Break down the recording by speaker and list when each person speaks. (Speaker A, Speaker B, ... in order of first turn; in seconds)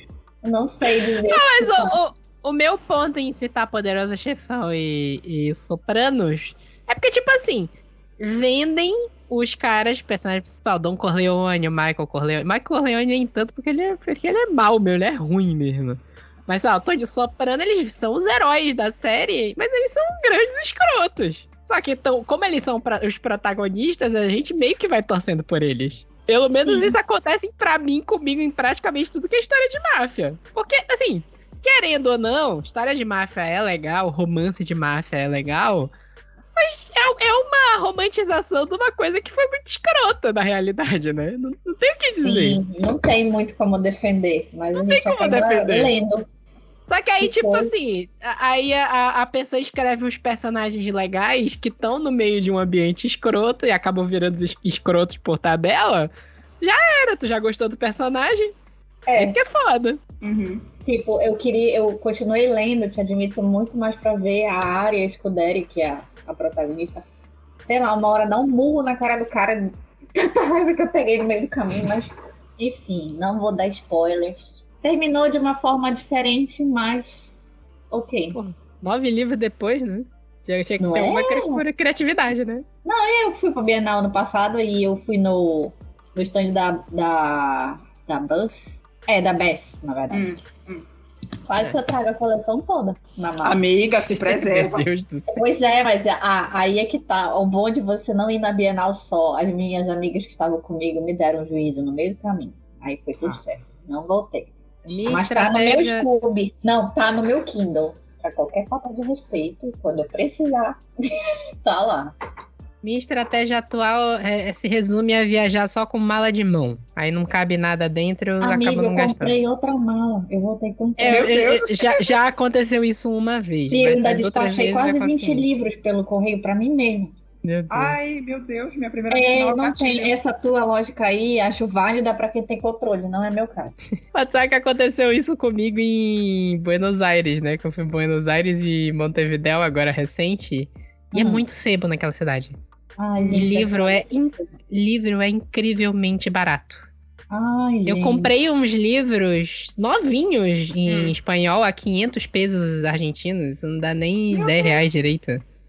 Speaker A: 0.4-2.0, 26.5-27.0, 42.2-46.2, 47.2-47.7, 59.0-59.4, 60.8-67.0, 67.7-77.3, 77.9-78.4, 80.8-81.6, 82.8-90.3, 91.5-93.6, 95.3-104.5, 105.1-111.0, 111.6-112.1, 118.4-121.3, 123.7-127.2, 129.1-133.8, 141.1-141.4, 143.0-144.4, 147.3-148.3
Speaker B: 1.2-35.9, 36.5-42.6, 44.7-45.9, 46.9-58.5, 59.1-60.0, 78.3-82.6, 94.0-95.3, 104.9-106.0, 112.8-119.3, 121.0-125.5, 127.4-128.0, 134.1-142.6, 143.3-146.9, 147.8-155.4
Speaker C: 60.2-60.7, 90.1-90.8, 93.4-94.9, 121.1-122.2, 127.7-130.2, 143.2-143.5, 150.8-151.2, 154.3-154.8